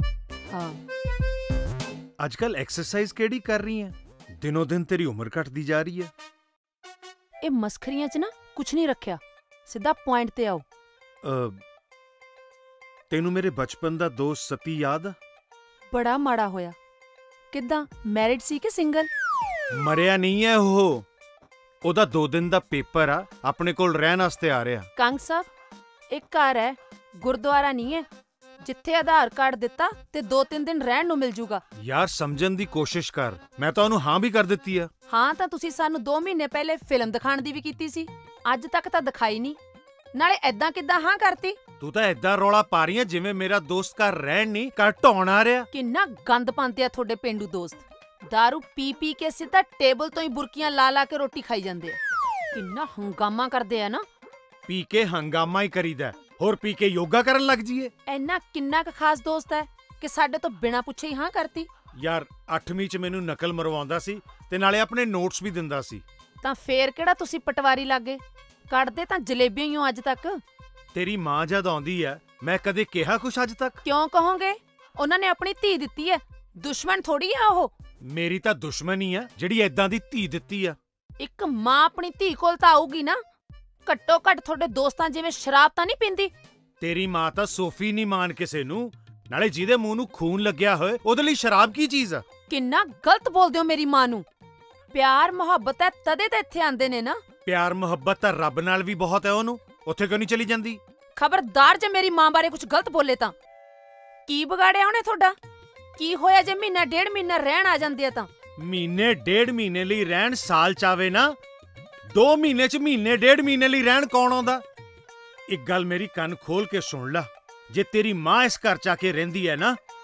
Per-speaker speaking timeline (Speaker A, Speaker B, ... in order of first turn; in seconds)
Speaker A: 0.5-0.8, 7.4-10.7, 15.9-16.8, 17.5-19.1, 25.0-25.5, 26.1-28.1, 28.6-31.6, 35.1-39.6, 40.1-41.6, 45.7-52.0, 52.5-54.0, 58.1-61.7, 66.4-70.4, 73.8-77.7, 81.2-83.2, 83.8-86.3, 92.5-94.3, 94.9-97.2, 101.2-103.3, 104.3-105.3, 106.0-108.3
Speaker B: 2.2-6.1, 11.2-11.6, 13.1-15.2, 19.7-21.1, 21.8-24.9, 31.8-34.9, 41.8-45.7, 54.7-57.9, 62.0-66.0, 70.9-73.8, 78.0-80.8, 86.8-92.2, 97.5-100.8, 108.6-111.3, 112.1-114.6, 115.5-119.8